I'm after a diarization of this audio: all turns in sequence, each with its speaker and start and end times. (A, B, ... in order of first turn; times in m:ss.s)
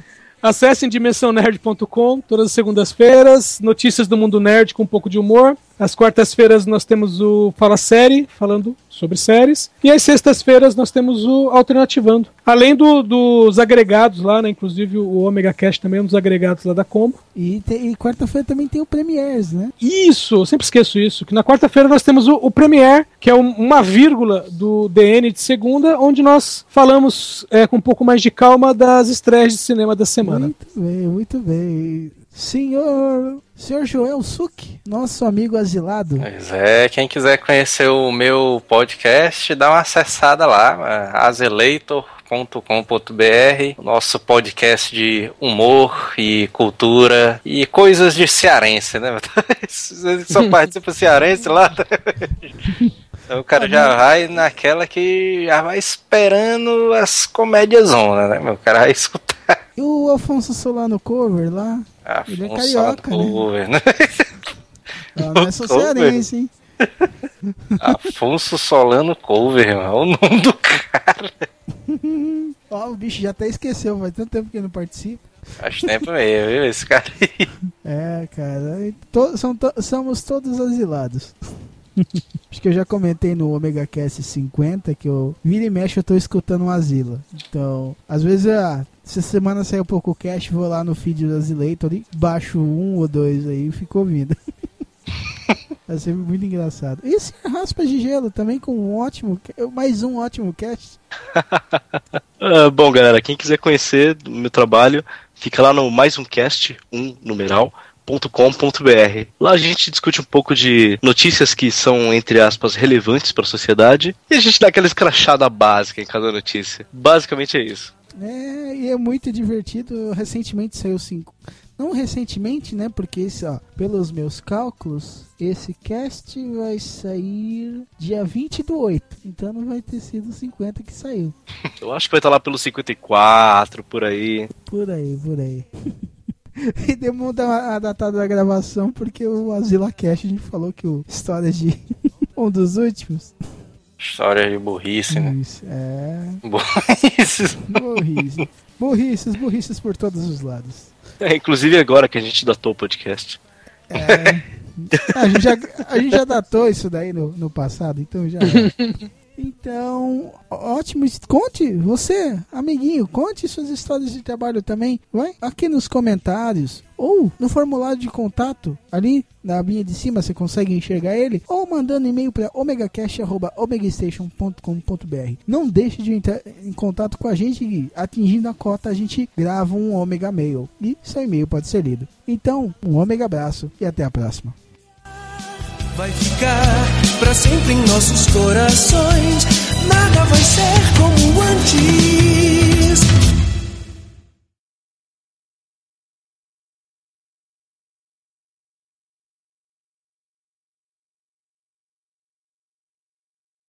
0:00.4-0:17.2 A
0:17.4-0:19.7 B
0:19.8-0:30.5 A
0:30.2-0:36.3 B
0:36.2-0:52.7 C
0:53.3-0:59.6 C
0:53.6-0:54.0 B
0:59.8-1:03.5 B
1:02.1-1:04.4 C
1:05.2-1:06.5 B
1:05.2-1:06.2 C
1:06.8-1:07.1 C
1:07.5-1:08.0 B
1:07.8-1:11.5 C
1:11.9-1:15.3 B
1:15.6-1:17.5 C
1:17.8-1:21.4 B
1:22.0-1:34.4 B
1:35.9-1:41.0 B
1:41.3-1:57.9 D
1:58.2-2:11.4 B
2:11.8-2:14.5 D
2:14.6-2:15.7 B
2:16.6-2:23.4 B
2:24.0-2:25.4 C
2:25.1-2:26.4 B
2:26.4-2:27.8 C
2:27.7-2:31.0 B
2:31.2-2:33.4 D
2:33.9-2:38.8 B
2:38.5-2:39.0 A
2:39.4-3:04.6 B
3:05.9-3:13.0 E